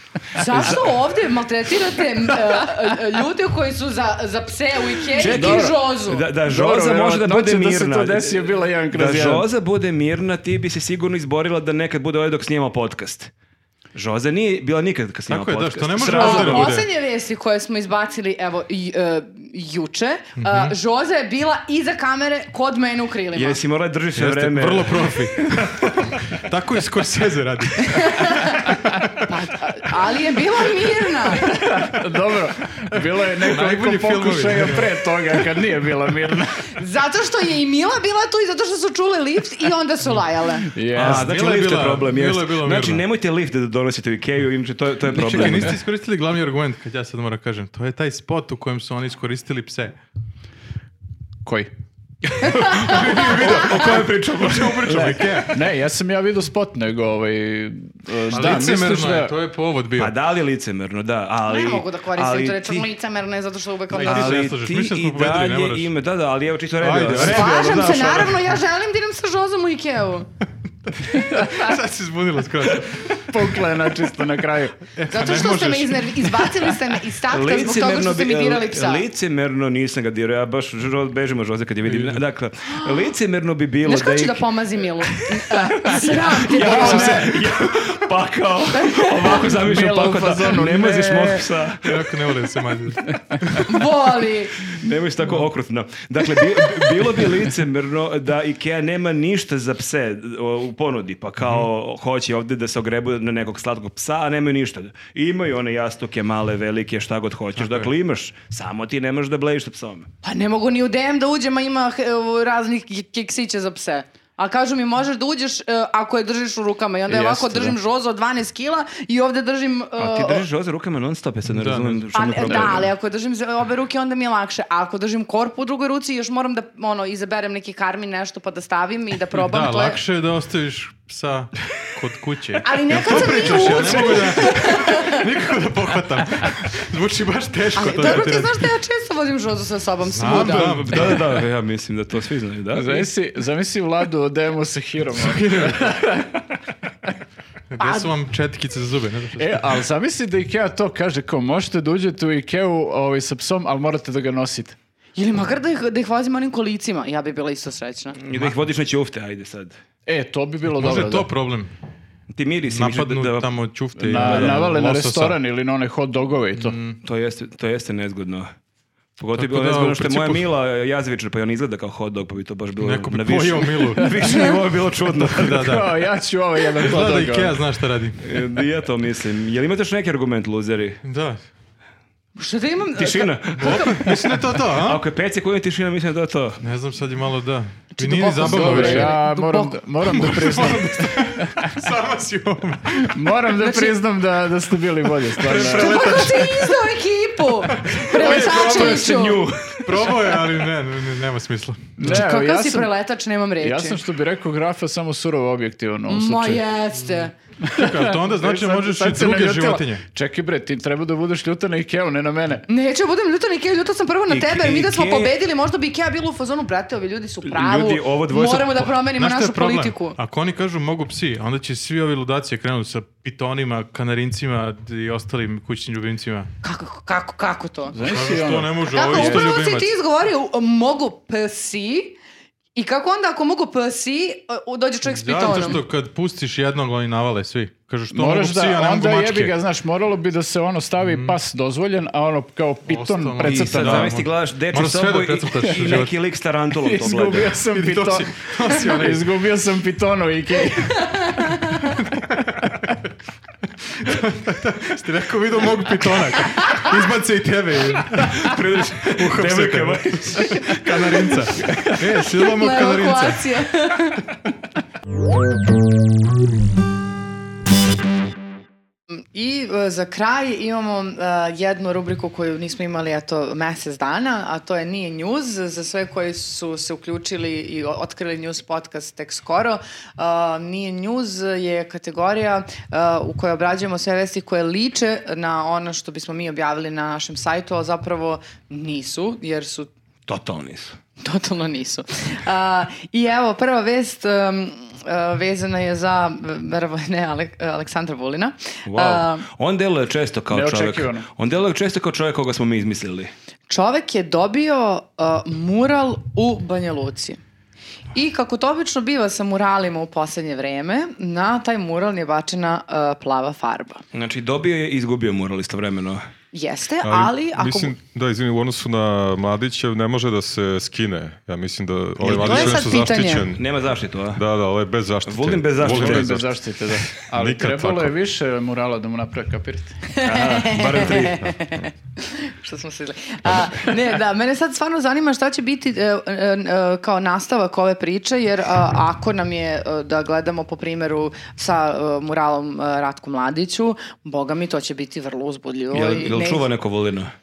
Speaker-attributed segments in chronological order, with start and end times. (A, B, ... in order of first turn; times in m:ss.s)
0:00.3-0:06.2 A
0:00.4-0:00.9 B
0:05.2-0:13.3 B
0:05.2-0:05.8 C
0:06.4-0:09.4 C
0:13.9-0:16.7 B
0:15.3-0:16.9 D
0:16.0-0:23.6 A
0:20.4-0:20.7 D
0:23.3-0:25.7 B
0:24.2-0:29.3 D
0:27.8-0:31.6 A
0:31.4-0:36.7 C
0:32.9-0:34.9 D
0:36.7-0:40.7 A
0:40.7-0:41.2 C
0:40.9-0:45.8 B
0:41.0-0:43.0 D
0:45.0-0:49.9 D
0:51.4-0:51.7 C
0:52.4-0:55.6 D
0:52.5-0:55.4 B
0:52.6-0:53.0 A
0:55.5-0:59.3 C
0:58.3-1:00.1 D
0:58.3-0:58.6 B
1:00.0-1:02.9 B
1:01.4-1:04.5 A
1:03.9-1:05.9 D
1:04.0-1:08.4 B
1:06.8-1:08.0 D
1:07.2-1:10.3 A
1:10.8-1:13.3 D
1:13.3-1:14.8 C
1:14.8-1:16.7 D
1:15.1-1:19.0 A
1:17.3-1:24.4 B
1:21.8-1:22.2 D
1:23.8-1:27.4 A
1:25.1-1:32.1 B
1:26.7-1:27.1 C
1:26.7-1:27.3 D
1:28.7-1:29.4 A
1:29.4-1:31.5 C
1:31.8-1:33.8 D
1:33.6-1:34.7 A
1:34.7-1:50.1 B
1:47.6-1:47.9 D
1:50.2-2:00.4 A
1:57.1-1:57.8 C
2:00.0-2:02.9 B
2:01.4-2:02.1 D
2:02.1-2:10.0 A
2:09.3-2:18.7 D
2:12.6-2:15.2 A
2:17.7-2:20.9 A
2:20.1-2:21.3 D
2:20.3-2:23.1 B
2:22.7-2:26.4 C
2:25.2-2:25.9 D
2:27.7-2:29.6 D
2:27.8-2:28.1 A
2:29.4-2:34.8 C
2:35.2-2:38.2 A
2:38.2-2:39.8 B
2:40.0-2:41.3 C
2:40.7-2:41.7 D
2:42.3-2:43.5 B
2:42.7-2:45.4 D
2:44.0-2:46.8 C
2:44.1-2:44.6 B
2:46.6-2:47.0 D
2:47.0-2:48.5 B
2:49.2-2:55.8 B
2:49.4-2:50.4 D
2:52.8-2:54.4 D
2:55.2-2:55.9 D
2:55.5-2:57.6 C
2:56.8-2:58.2 D
2:58.2-3:01.0 B
3:01.0-3:01.4 D
3:02.4-3:04.2 A
3:03.0-3:06.6 B
3:03.6-3:05.0 D
3:06.6-3:09.2 D
3:07.9-3:09.8 A
3:08.4-3:11.7 C
3:10.1-3:13.1 D
3:13.1-3:16.3 C
3:13.6-3:14.0 A
3:15.4-3:16.8 D
3:15.6-3:19.4 A
3:17.6-3:22.3 D
3:18.1-3:20.3 B
3:22.0-3:22.9 C
3:22.0-3:24.0 A
3:23.6-3:26.6 C
3:26.1-3:27.3 A
3:27.0-3:30.0 D
3:27.6-3:32.6 C
3:32.7-3:40.2 A
3:34.3-3:35.3 B
3:37.4-3:38.9 B
3:39.2-3:46.5 D
3:46.6-3:48.0 A
3:47.9-3:49.4 C
3:48.0-3:49.9 D
3:48.8-3:52.2 A
3:52.7-3:55.8 A
3:55.0-3:59.5 D
3:58.1-4:04.1 C
4:01.0-4:01.4 D
4:02.9-4:06.1 D
4:03.4-4:07.5 B
4:05.7-4:06.0 C
4:06.8-4:11.1 C
4:07.6-4:09.3 D
4:11.1-4:11.8 A
4:11.8-4:12.9 D
4:13.9-4:23.4 D
4:16.6-4:16.8 A
4:18.4-4:20.8 B
4:22.4-4:24.2 A
4:29.1-4:49.9 A
4:50.3-4:51.0 B
4:51.2-4:59.4 A
4:58.8-5:03.3 B
5:00.5-5:01.3 C
5:03.7-5:07.4 A
5:08.1-5:14.0 A
5:14.1-5:16.2 B
5:16.5-5:17.9 A
5:17.0-5:23.7 E
5:22.2-5:22.9 B
5:22.2-5:23.5 A
5:23.5-5:24.4 B
5:24.3-5:26.5 E
5:25.2-5:26.4 B
5:25.8-5:30.0 C
5:27.2-5:28.1 E
5:30.1-5:46.6 A
5:30.2-5:31.6 B
5:45.9-5:47.3 B